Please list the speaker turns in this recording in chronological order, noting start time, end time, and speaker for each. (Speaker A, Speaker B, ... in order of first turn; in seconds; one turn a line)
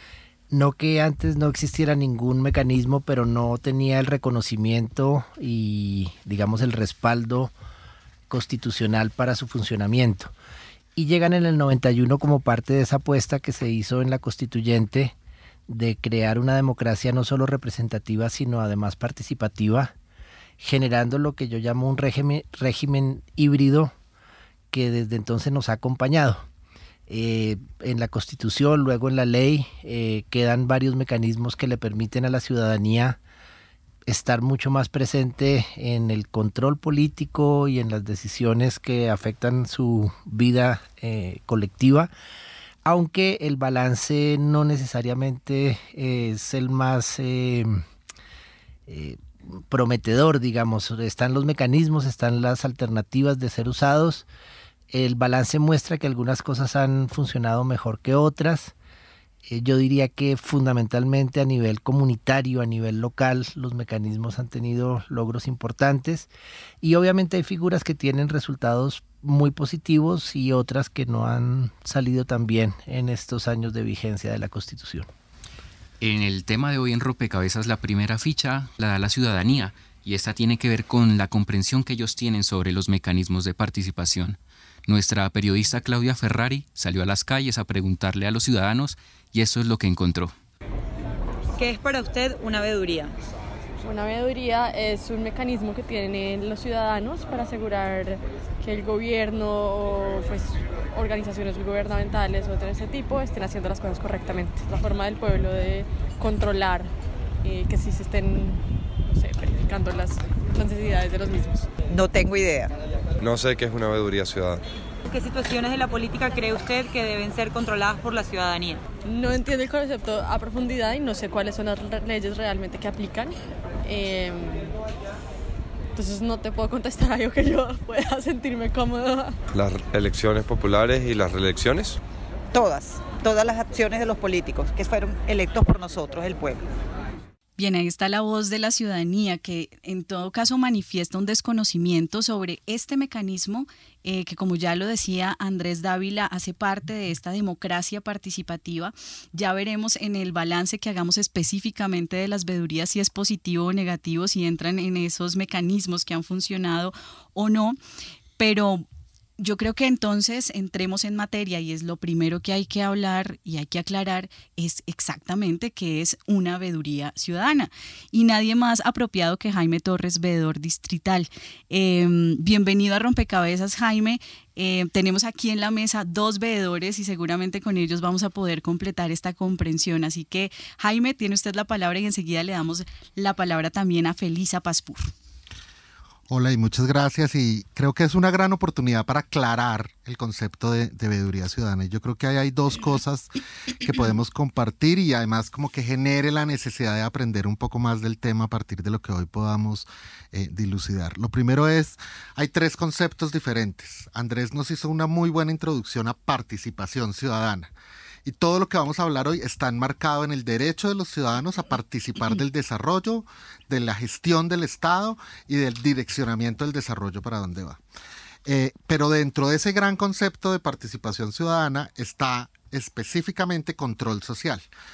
Speaker A: 0.5-7.5
Speaker A: 8.3-10.3
Speaker A: 10.9-15.1
Speaker A: 15.7-19.9
Speaker A: 20.6-23.9
Speaker A: 24.7-26.4
Speaker A: 27.1-33.2
Speaker A: 34.0-42.1
Speaker A: 42.8-47.8
Speaker A: 48.9-54.3
Speaker A: 54.9-58.7
Speaker A: 59.5-66.3
Speaker A: 66.8-75.1
Speaker B: 76.0-90.3
Speaker C: 91.5-93.1
Speaker D: 93.8-106.9
Speaker D: 107.4-111.7
Speaker C: 111.9-112.7
Speaker E: 113.2-114.6
Speaker C: 115.1-118.8
Speaker D: 119.0-124.8
Speaker D: 125.9-129.4
Speaker E: 129.5-132.0
Speaker C: 132.5-136.6
Speaker F: 137.6-157.8
Speaker F: 158.4-158.8
Speaker F: 159.4-185.1
Speaker G: 186.3-207.7
Speaker G: 208.2-217.8
Speaker G: 218.4-224.6